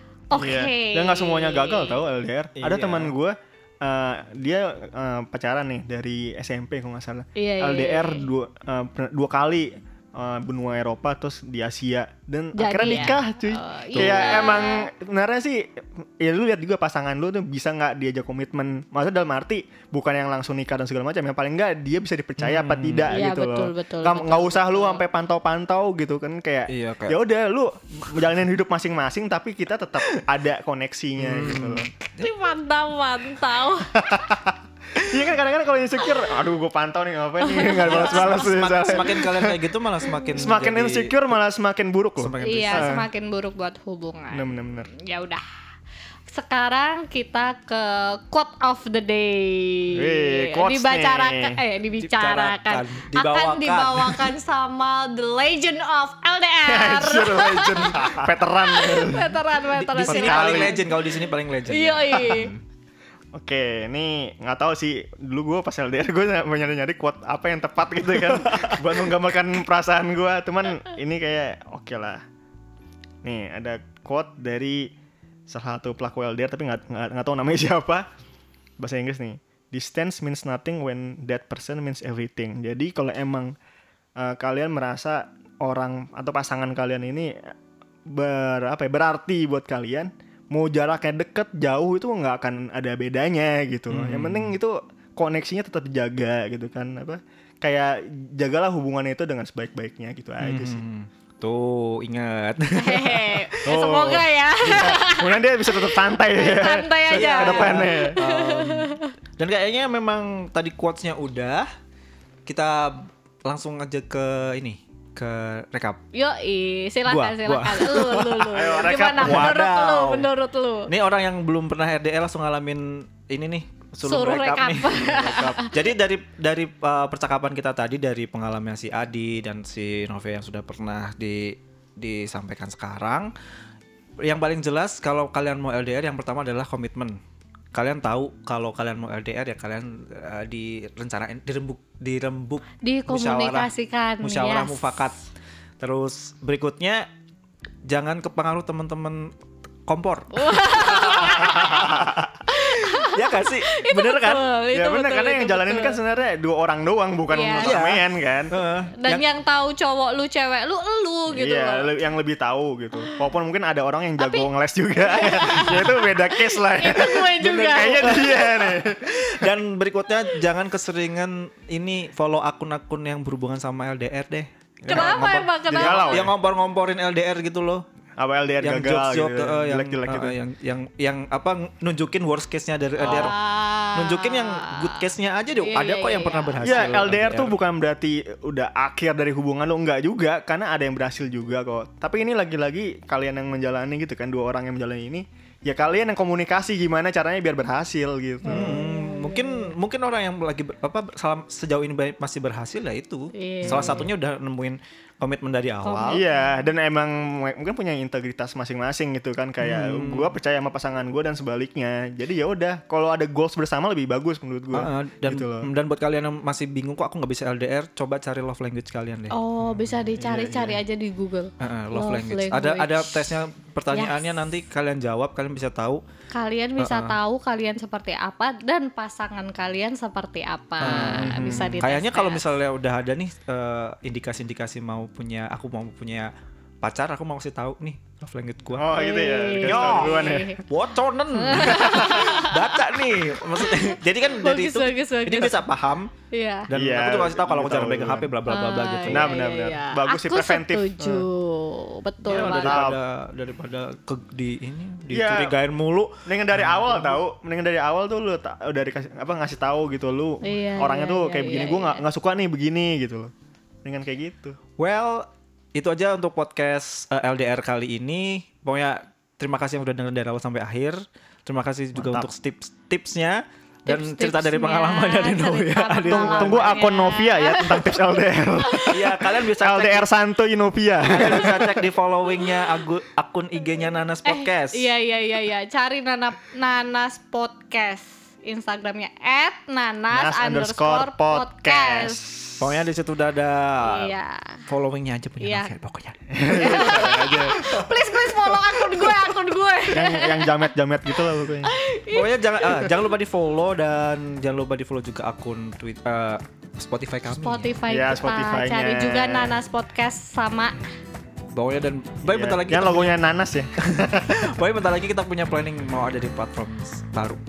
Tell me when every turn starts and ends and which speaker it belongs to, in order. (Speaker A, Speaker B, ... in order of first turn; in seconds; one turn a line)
Speaker A: 0.3-2.0
Speaker B: 0.3-31.9
Speaker C: 2.6-3.1
Speaker A: 7.3-8.3
Speaker A: 12.5-14.9
Speaker C: 12.8-13.2
Speaker C: 13.9-14.4
Speaker C: 22.4-23.2
Speaker A: 23.1-25.0
Speaker C: 26.7-27.2
Speaker C: 31.2-32.3
Speaker A: 32.2-34.0
Speaker B: 34.0-39.6
Speaker A: 37.4-38.5
Speaker C: 37.8-41.3
Speaker A: 40.1-40.4
Speaker B: 40.3-43.1
Speaker C: 42.2-42.9
Speaker A: 42.4-45.4
Speaker B: 44.3-44.9
Speaker A: 46.3-62.5
Speaker B: 50.0-51.6
Speaker C: 52.0-54.3
Speaker B: 56.6-59.4
Speaker C: 59.8-62.6
Speaker B: 60.0-60.8
Speaker B: 63.3-72.2
Speaker B: 73.2-74.9
Speaker B: 75.5-78.1
Speaker B: 78.8-83.5
Speaker B: 84.2-87.5
Speaker B: 88.1-100.8
Speaker C: 93.9-94.5
Speaker C: 100.4-103.6
Speaker A: 102.7-109.1
Speaker B: 103.6-108.2
Speaker C: 107.1-111.7
Speaker C: 112.5-116.0
Speaker A: 116.1-120.9
Speaker C: 117.1-120.3
Speaker B: 118.5-119.6
Speaker C: 120.9-133.3
Speaker A: 124.0-125.8
Speaker B: 125.0-125.6
Speaker C: 134.2-137.2
Speaker C: 137.7-145.2
Speaker A: 142.8-145.2
Speaker C: 145.8-147.1
Speaker C: 147.9-149.3
Speaker C: 149.9-151.9
Speaker A: 150.3-156.0
Speaker B: 151.3-152.3
Speaker C: 152.6-154.4
Speaker B: 154.7-158.5
Speaker A: 157.3-157.8
Speaker C: 157.6-159.2
Speaker A: 159.0-161.9
Speaker B: 161.3-169.5
Speaker A: 164.2-164.4
Speaker A: 165.0-168.5
Speaker C: 167.4-177.8
Speaker B: 174.8-176.3
Speaker A: 174.9-176.3
Speaker B: 178.2-180.3
Speaker C: 178.6-183.4
Speaker A: 183.0-186.9
Speaker B: 183.0-183.3
Speaker C: 183.9-187.6
Speaker B: 186.6-198.8
Speaker A: 198.4-199.7
Speaker C: 198.4-206.2
Speaker A: 203.3-204.1
Speaker B: 203.7-204.0
Speaker A: 205.8-206.4
Speaker B: 206.1-215.7
Speaker C: 209.6-210.3
Speaker C: 214.7-219.3
Speaker A: 219.3-223.3
Speaker B: 220.0-220.8
Speaker C: 221.6-226.0
Speaker A: 223.9-224.2
Speaker A: 226.3-232.5
Speaker C: 226.8-227.2
Speaker C: 230.8-246.1
Speaker B: 230.8-231.8
Speaker B: 238.7-240.6
Speaker A: 238.9-240.6
Speaker A: 241.3-245.7
Speaker B: 241.8-242.1
Speaker A: 246.3-246.7
Speaker C: 246.7-249.3
Speaker B: 246.7-248.3
Speaker A: 248.5-252.8
Speaker B: 249.1-251.2
Speaker C: 252.2-257.2
Speaker B: 252.3-253.0
Speaker B: 255.1-255.6
Speaker B: 256.2-263.3
Speaker A: 260.4-262.0
Speaker B: 263.8-264.6
Speaker C: 264.8-276.8
Speaker B: 271.9-272.3
Speaker A: 273.9-278.1
Speaker B: 276.1-281.8
Speaker A: 278.6-278.9
Speaker C: 278.9-280.1
Speaker C: 281.0-284.9
Speaker A: 284.2-292.2
Speaker B: 290.1-292.7
Speaker C: 292.6-294.1
Speaker A: 293.8-294.6
Speaker C: 294.7-297.9
Speaker A: 295.4-295.7
Speaker B: 296.3-297.7
Speaker A: 296.5-300.7
Speaker B: 299.9-301.7
Speaker A: 301.6-302.9
Speaker C: 302.1-307.7
Speaker A: 307.3-310.8
Speaker B: 307.9-309.6
Speaker C: 311.5-313.2
Speaker B: 312.3-314.4
Speaker C: 313.8-317.4